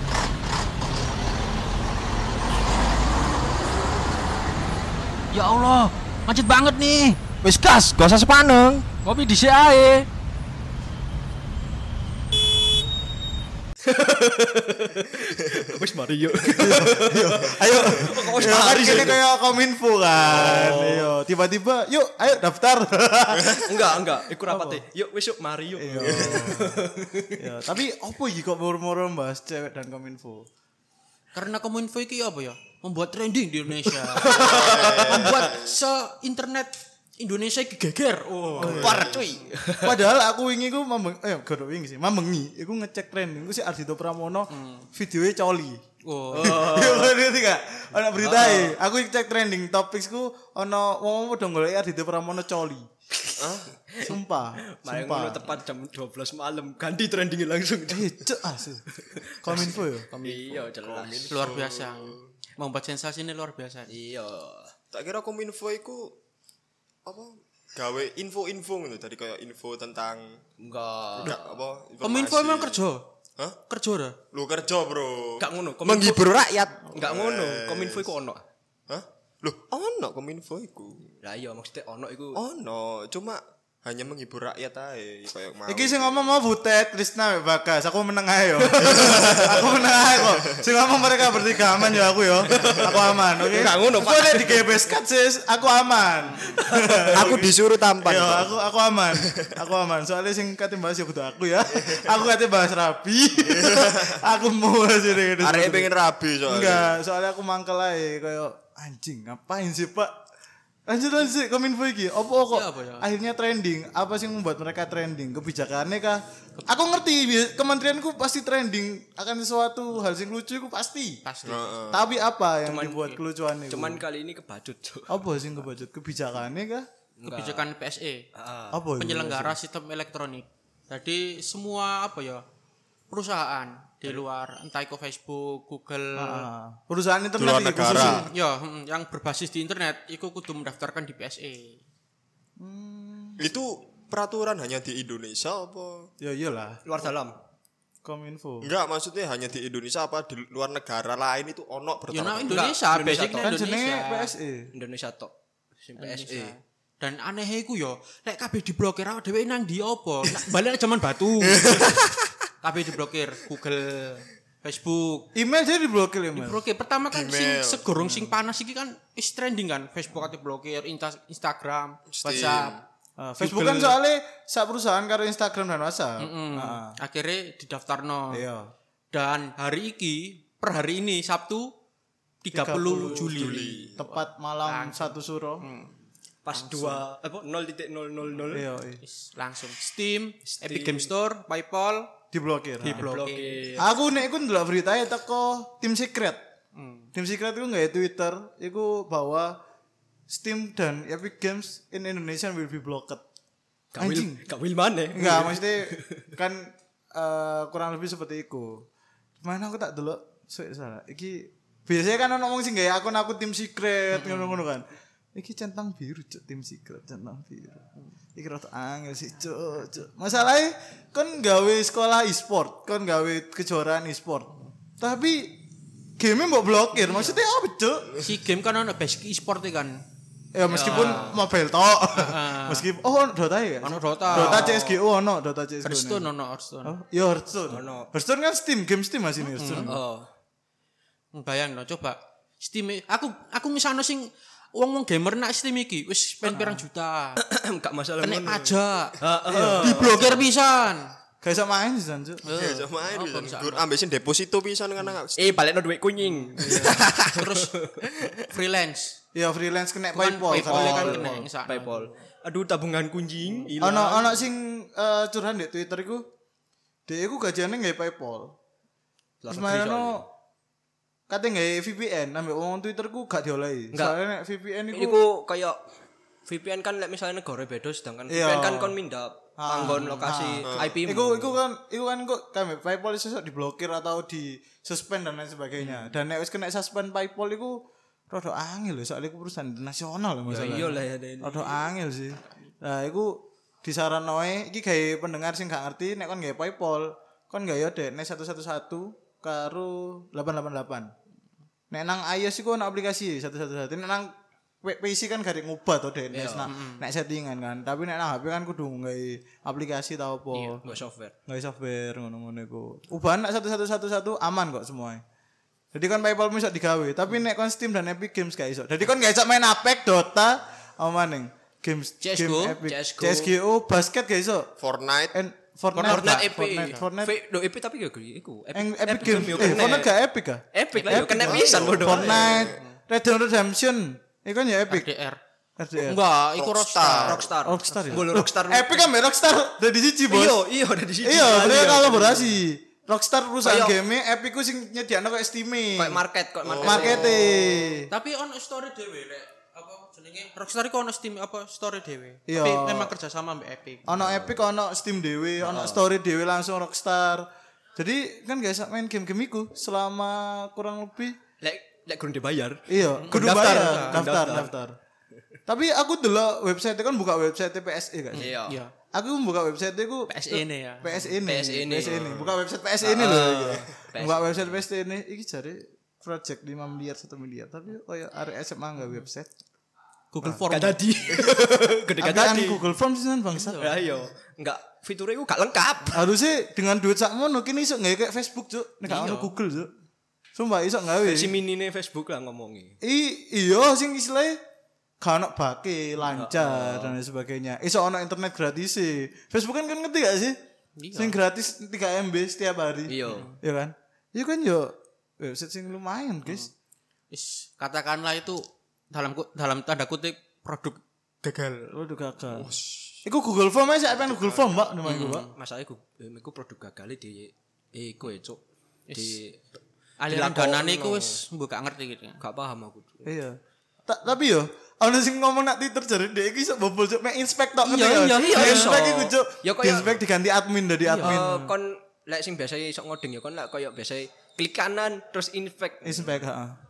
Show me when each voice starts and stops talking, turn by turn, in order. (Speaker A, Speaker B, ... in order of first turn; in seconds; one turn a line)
Speaker A: 5.3-10.0
Speaker B: 5.4-6.9
Speaker B: 9.1-10.0
Speaker C: 13.8-19.2
Speaker D: 16.5-23.7
Speaker E: 18.8-19.1
Speaker E: 20.2-21.0
Speaker C: 20.4-20.7
Speaker C: 23.6-27.4
Speaker D: 24.5-24.8
Speaker D: 25.8-30.5
Speaker E: 26.0-26.4
Speaker B: 31.3-39.5
Speaker C: 34.1-35.3
Speaker E: 34.2-35.8
Speaker D: 38.6-39.1
Speaker E: 38.6-39.5
Speaker C: 38.6-40.0
Speaker D: 39.8-45.8
Speaker B: 44.5-44.9
Speaker B: 46.0-46.9
Speaker C: 46.3-47.1
Speaker D: 46.3-52.9
Speaker C: 48.2-48.7
Speaker B: 48.3-48.6
Speaker E: 53.4-53.8
Speaker C: 53.9-58.2
Speaker D: 54.0-55.6
Speaker D: 57.9-58.8
Speaker C: 58.9-61.4
Speaker D: 59.4-60.1
Speaker B: 59.5-60.7
Speaker E: 60.8-62.3
Speaker B: 61.3-63.9
Speaker C: 63.9-64.7
Speaker E: 64.9-66.2
Speaker E: 67.0-70.4
Speaker C: 70.6-71.6
Speaker E: 71.2-72.8
Speaker B: 72.0-73.1
Speaker B: 73.7-74.2
Speaker E: 74.3-78.1
Speaker C: 75.4-78.4
Speaker E: 78.9-81.1
Speaker C: 81.2-82.4
Speaker E: 82.3-86.4
Speaker D: 85.7-105.9
Speaker E: 88.8-90.7
Speaker E: 91.2-92.0
Speaker C: 92.5-94.8
Speaker E: 92.6-93.1
Speaker B: 96.2-96.6
Speaker C: 96.4-97.3
Speaker E: 97.1-98.6
Speaker E: 101.7-102.2
Speaker E: 103.4-104.2
Speaker E: 105.4-107.0
Speaker D: 106.5-110.2
Speaker D: 110.9-121.2
Speaker B: 112.5-113.1
Speaker B: 121.2-121.7
Speaker E: 121.4-122.1
Speaker D: 121.9-124.0
Speaker C: 122.6-123.1
Speaker C: 123.7-125.3
Speaker D: 125.1-126.9
Speaker C: 127.2-127.7
Speaker B: 127.2-128.2
Speaker C: 128.3-128.8
Speaker D: 128.7-129.6
Speaker B: 129.0-132.4
Speaker B: 133.1-136.5
Speaker D: 136.2-138.3
Speaker E: 137.4-138.3
Speaker B: 137.9-141.8
Speaker D: 142.6-143.4
Speaker E: 143.4-146.1
Speaker D: 146.2-147.1
Speaker C: 146.8-147.3
Speaker D: 148.0-148.7
Speaker E: 148.6-152.7
Speaker B: 152.1-154.3
Speaker C: 152.5-153.5
Speaker D: 153.2-154.7
Speaker C: 154.7-156.5
Speaker B: 156.0-162.0
Speaker E: 161.4-162.4
Speaker B: 162.6-165.3
Speaker D: 165.3-166.6
Speaker B: 166.3-172.7
Speaker E: 167.1-167.9
Speaker D: 168.0-168.3
Speaker E: 172.1-172.8
Speaker D: 173.2-176.9
Speaker B: 173.4-174.0
Speaker B: 176.2-178.4
Speaker D: 178.3-178.7
Speaker B: 179.1-181.7
Speaker B: 182.4-185.9
Speaker D: 182.5-185.6
Speaker E: 183.3-184.0
Speaker C: 186.4-188.7
Speaker B: 186.5-187.0
Speaker D: 188.5-189.0
Speaker B: 189.0-192.1
Speaker C: 190.4-191.1
Speaker D: 192.3-193.1
Speaker B: 192.8-193.8
Speaker C: 192.8-193.9
Speaker D: 193.8-196.4
Speaker B: 196.7-197.1
Speaker D: 197.1-199.6
Speaker D: 200.3-203.2
Speaker C: 203.9-206.3
Speaker D: 204.0-204.4
Speaker D: 205.1-208.8
Speaker D: 209.4-217.8
Speaker B: 214.1-214.6
Speaker D: 218.3-225.6
Speaker D: 226.2-228.1
Speaker B: 227.0-227.4
Speaker B: 228.2-230.0
Speaker D: 230.5-236.3
Speaker B: 230.7-231.4
Speaker C: 230.7-231.4
Speaker B: 232.1-232.9
Speaker B: 233.8-234.9
Speaker C: 234.3-234.9
Speaker B: 235.8-236.9
Speaker D: 236.8-240.0
Speaker C: 237.7-238.1
Speaker B: 239.5-240.0
Speaker C: 239.7-240.3
Speaker B: 241.3-247.4
Speaker C: 246.4-246.8
Speaker C: 247.4-250.4
Speaker B: 248.2-251.1
Speaker D: 249.5-250.2
Speaker D: 251.4-252.4
Speaker B: 252.4-253.8
Speaker E: 252.5-255.6
Speaker C: 255.3-257.9
Speaker B: 256.2-257.7
Speaker E: 258.0-258.6
Speaker B: 258.5-259.2
Speaker D: 259.3-261.5
Speaker B: 260.1-262.1
Speaker C: 260.5-264.4
Speaker B: 263.4-263.8
Speaker D: 263.8-266.2
Speaker D: 267.1-268.6
Speaker C: 269.4-270.2
Speaker D: 269.5-270.2
Speaker D: 271.3-275.2
Speaker C: 274.9-275.8
Speaker C: 276.5-281.6
Speaker D: 278.3-278.9
Speaker D: 279.6-301.1
Speaker B: 279.8-280.3
Speaker E: 280.6-280.9
Speaker C: 290.5-291.8
Speaker D: 301.9-310.8
Speaker C: 306.3-306.7
Speaker B: 306.6-307.0
Speaker B: 310.5-311.0
Speaker C: 310.8-311.3
Speaker D: 311.5-315.2
Speaker D: 315.9-324.7
Speaker B: 322.2-322.8
Speaker C: 322.8-323.5
Speaker E: 324.8-325.4
Speaker D: 325.3-327.3
Speaker B: 325.9-327.0
Speaker C: 326.0-330.1
Speaker D: 328.7-335.1
Speaker C: 330.7-332.5
Speaker B: 331.0-331.2
Speaker E: 331.5-332.8
Speaker B: 332.7-332.9
Speaker B: 334.9-335.4
Speaker D: 335.8-336.2
Speaker B: 336.0-337.4
Speaker E: 336.5-337.5
Speaker C: 337.2-339.1
Speaker D: 337.6-340.6
Speaker C: 340.3-342.6
Speaker D: 341.2-346.2
Speaker C: 343.6-343.9
Speaker C: 345.9-347.9
Speaker E: 346.6-347.5
Speaker D: 346.8-348.1
Speaker B: 348.1-354.1
Speaker D: 352.5-353.1
Speaker D: 354.1-357.4
Speaker C: 354.1-354.6
Speaker C: 355.6-356.0
Speaker D: 358.0-361.4
Speaker C: 361.6-364.7
Speaker D: 362.9-364.9
Speaker B: 363.1-364.7
Speaker D: 365.7-368.6
Speaker B: 368.3-368.9
Speaker C: 368.3-368.8
Speaker D: 369.1-379.5
Speaker B: 370.3-371.2
Speaker C: 371.4-374.8
Speaker B: 380.3-381.4
Speaker C: 380.7-382.9
Speaker D: 382.2-383.9
Speaker B: 383.6-384.0
Speaker C: 383.7-386.2
Speaker D: 386.1-389.9
Speaker B: 389.1-389.6
Speaker D: 390.5-391.5
Speaker C: 391.2-393.0
Speaker D: 393.0-394.6
Speaker D: 395.2-400.6
Speaker C: 396.3-397.2
Speaker B: 401.0-401.4
Speaker D: 401.1-406.7
Speaker C: 403.1-403.5
Speaker B: 403.2-403.6
Speaker B: 407.3-411.6
Speaker D: 411.9-412.7
Speaker E: 412.5-413.2
Speaker D: 413.2-415.5
Speaker B: 415.0-415.5
Speaker C: 415.5-419.6
Speaker B: 419.1-419.4
Speaker B: 420.2-422.4
Speaker C: 420.3-421.4
Speaker C: 422.4-423.3
Speaker D: 423.2-431.7
Speaker B: 427.8-429.0
Speaker C: 428.4-430.2
Speaker B: 431.0-431.4
Speaker C: 431.2-436.4
Speaker D: 436.0-436.8